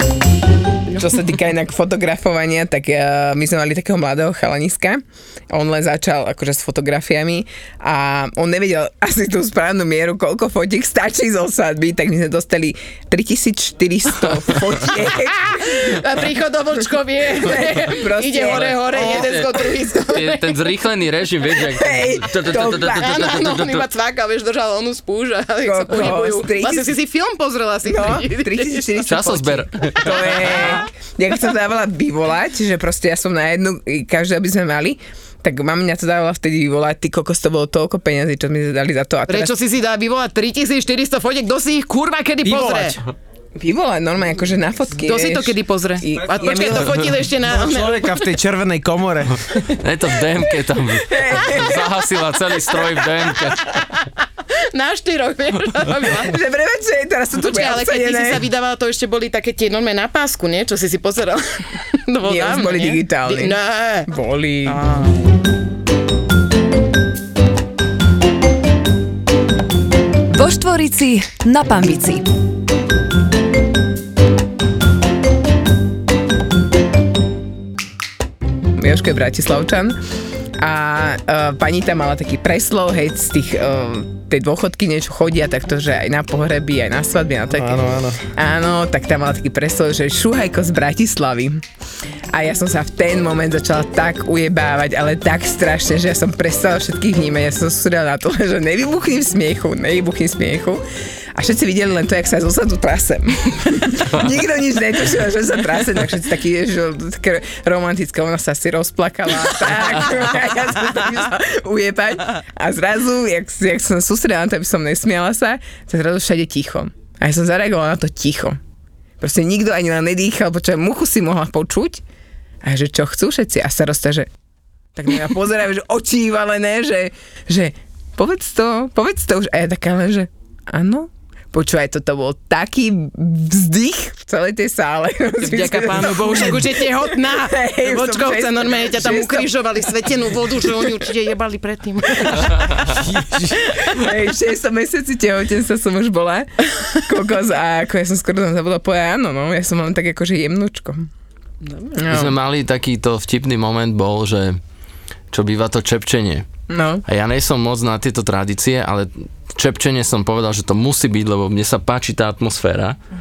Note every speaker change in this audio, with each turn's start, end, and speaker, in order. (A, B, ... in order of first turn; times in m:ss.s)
0:00.9-0:16.0 A
0:15.8-0:20.6 B
0:17.4-0:19.4 A
0:18.5-0:23.9 C
0:21.7-0:23.3 A
0:22.9-0:29.0 B
0:25.6-0:27.0 A
0:27.8-0:39.5 A
0:29.1-0:30.8 C
0:39.3-0:43.0 B
0:42.4-0:43.0 D
0:43.6-0:47.2 A
0:45.0-0:48.2 B
0:47.5-0:49.4 D
0:49.8-0:53.8 C
0:51.0-0:52.0 A
0:54.5-0:56.4 B
0:56.2-0:58.4 A
0:57.4-1:04.1 B
1:02.2-1:03.6 A
1:04.1-1:04.8 A
1:04.6-1:05.2 B
1:10.3-1:12.3 E
1:18.7-1:20.0 A
1:20.6-1:27.8 A
1:27.5-1:28.2 D
1:28.4-1:31.6 A
1:32.3-1:40.8 A
1:41.4-1:58.6 A
1:59.2-2:02.0 A
2:02.6-2:04.3 A
2:05.0-2:21.0 A
2:15.4-2:22.5 B
2:22.2-2:31.1 A
2:23.2-2:23.6 D
2:31.6-2:32.0 B
2:32.0-2:32.4 A
2:32.1-2:34.6 C
2:35.3-2:36.4 C
2:36.7-2:37.0 A
2:37.1-2:43.0 C